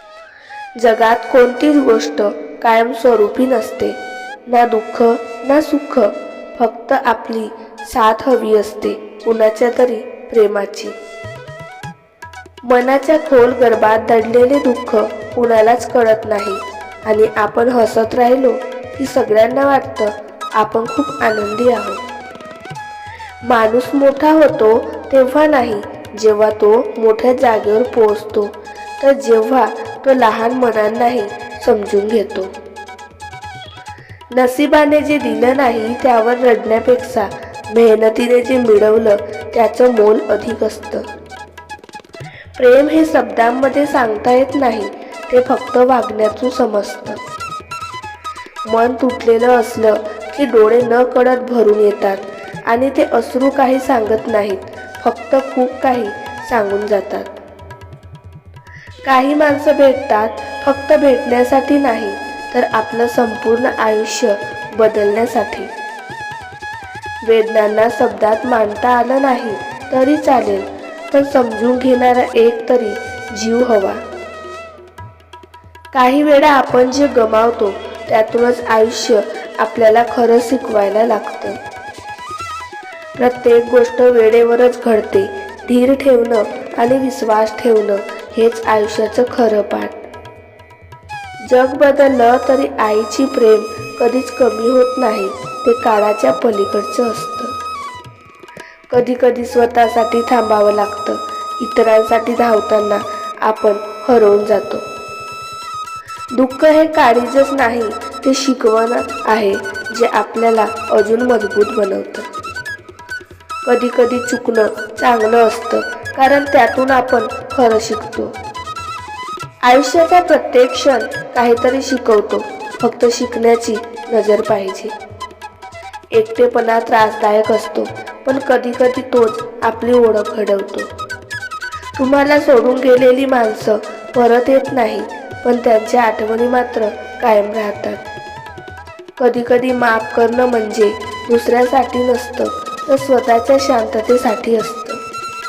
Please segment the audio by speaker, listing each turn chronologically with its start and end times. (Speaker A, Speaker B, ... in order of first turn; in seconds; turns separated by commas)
Speaker A: 0.8-4.0, Speaker A: 4.5-11.0, Speaker A: 12.7-22.0, Speaker A: 23.4-32.5, Speaker A: 34.3-41.1, Speaker A: 42.6-47.2, Speaker A: 48.7-57.4, Speaker A: 59.1-65.7, Speaker A: 67.2-74.0, Speaker A: 75.9-81.6, Speaker A: 83.2-90.0, Speaker A: 91.4-97.5, Speaker A: 98.9-104.9, Speaker A: 106.3-112.3, Speaker A: 113.7-118.3, Speaker A: 119.6-124.9, Speaker A: 126.1-130.9, Speaker A: 132.0-138.0, Speaker A: 139.2-145.0